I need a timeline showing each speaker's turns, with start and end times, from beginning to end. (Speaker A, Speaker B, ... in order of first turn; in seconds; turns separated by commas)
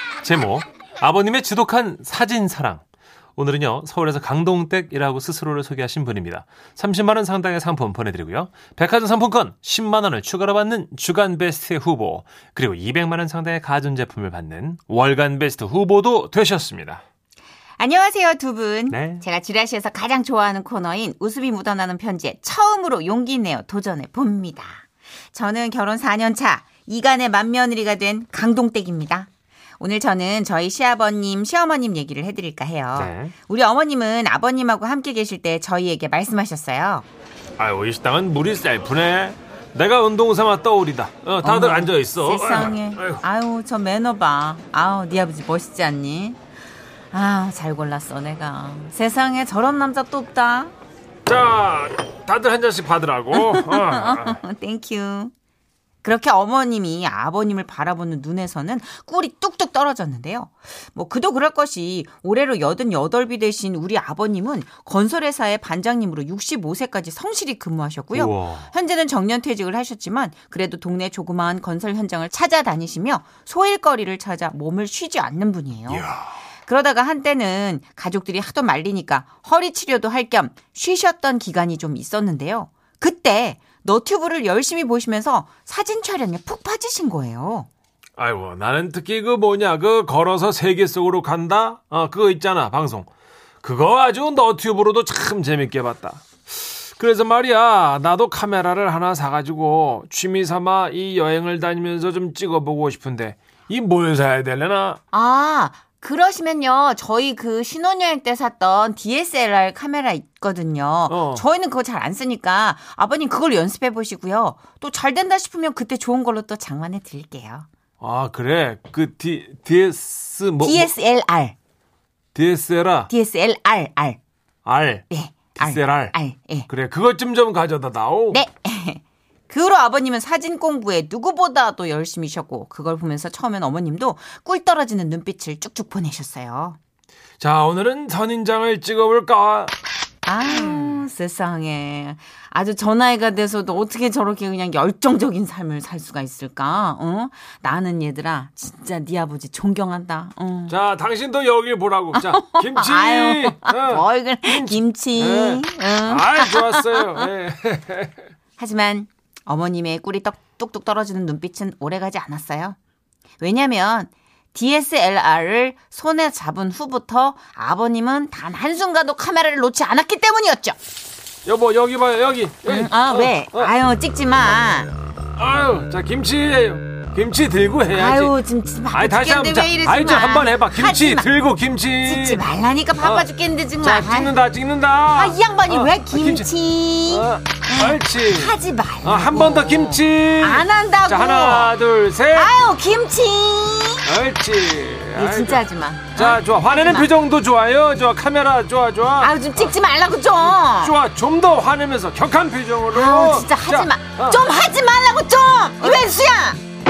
Speaker A: 0.2-2.8, Speaker A: 3.4-17.0, Speaker B: 17.8-37.1, Speaker A: 18.9-19.2, Speaker A: 33.0-33.3, Speaker A: 37.6-43.2, Speaker B: 41.4-46.4, Speaker B: 47.1-50.7, Speaker A: 51.3-54.4, Speaker B: 53.3-55.3, Speaker B: 56.0-76.1, Speaker A: 68.1-68.7, Speaker A: 75.9-76.3, Speaker B: 76.7-87.7, Speaker A: 88.2-93.1, Speaker A: 93.6-105.0, Speaker B: 105.1-117.7, Speaker A: 111.1-111.5, Speaker A: 118.0-120.9, Speaker B: 120.6-121.6, Speaker A: 122.3-123.1, Speaker B: 123.1-124.2, Speaker A: 124.7-126.2, Speaker B: 125.1-126.7, Speaker A: 126.7-128.4, Speaker B: 128.3-136.8, Speaker A: 137.4-139.7, Speaker B: 140.2-150.8, Speaker A: 140.6-141.0, Speaker A: 150.7-158.2, Speaker B: 152.1-157.3, Speaker B: 158.6-162.8, Speaker B: 163.4-170.8, Speaker A: 171.5-173.7, Speaker B: 172.7-174.9, Speaker A: 175.4-178.3, Speaker B: 177.9-181.3, Speaker A: 178.9-182.4, Speaker B: 182.0-184.4, Speaker A: 183.0-183.3, Speaker A: 183.8-186.5, Speaker B: 185.1-191.7, Speaker A: 187.1-192.5, Speaker B: 192.3-194.1, Speaker A: 194.1-195.6, Speaker B: 195.2-197.1, Speaker A: 196.2-199.7, Speaker B: 199.2-201.0, Speaker A: 200.7-204.4, Speaker B: 202.9-206.6